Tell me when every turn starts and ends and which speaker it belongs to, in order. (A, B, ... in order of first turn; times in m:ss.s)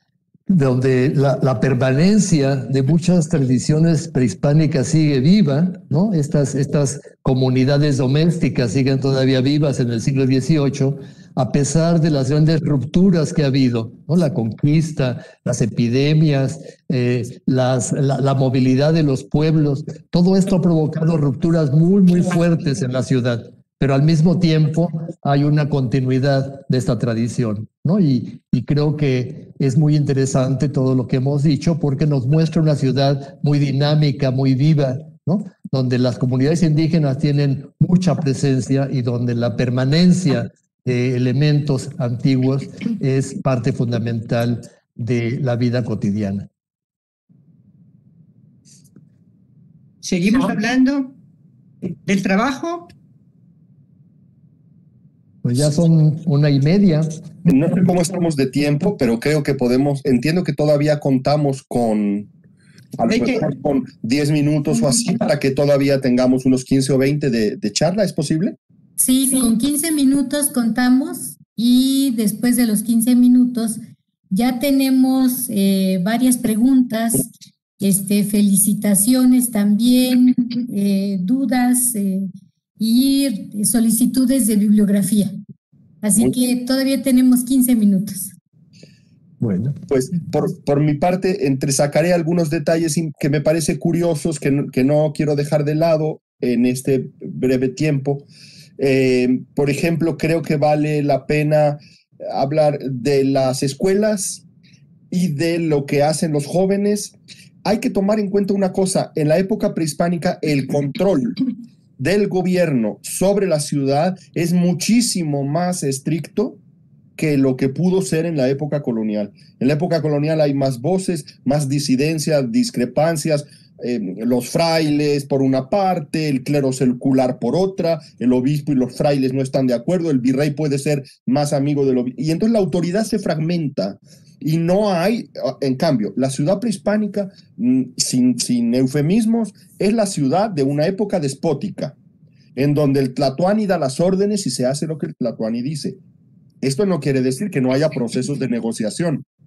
0:00.5-0:46.5 A
0:50.0-0:51.2 B
0:52.0-0:52.9 B
0:55.4-0:57.1 A
0:57.4-1:02.3 C
1:03.0-1:08.6 C
1:03.1-1:03.5 B
1:09.0-1:13.8 D
1:14.3-1:22.3 D
1:22.8-1:25.3 D
1:26.0-1:28.3 D
1:29.4-1:29.8 A
1:29.9-1:38.2 C
1:38.8-1:44.4 C
1:45.1-1:51.4 C
1:52.0-1:56.6 C
1:57.2-2:22.0 C
2:22.6-2:26.0 C
2:26.6-2:29.2 C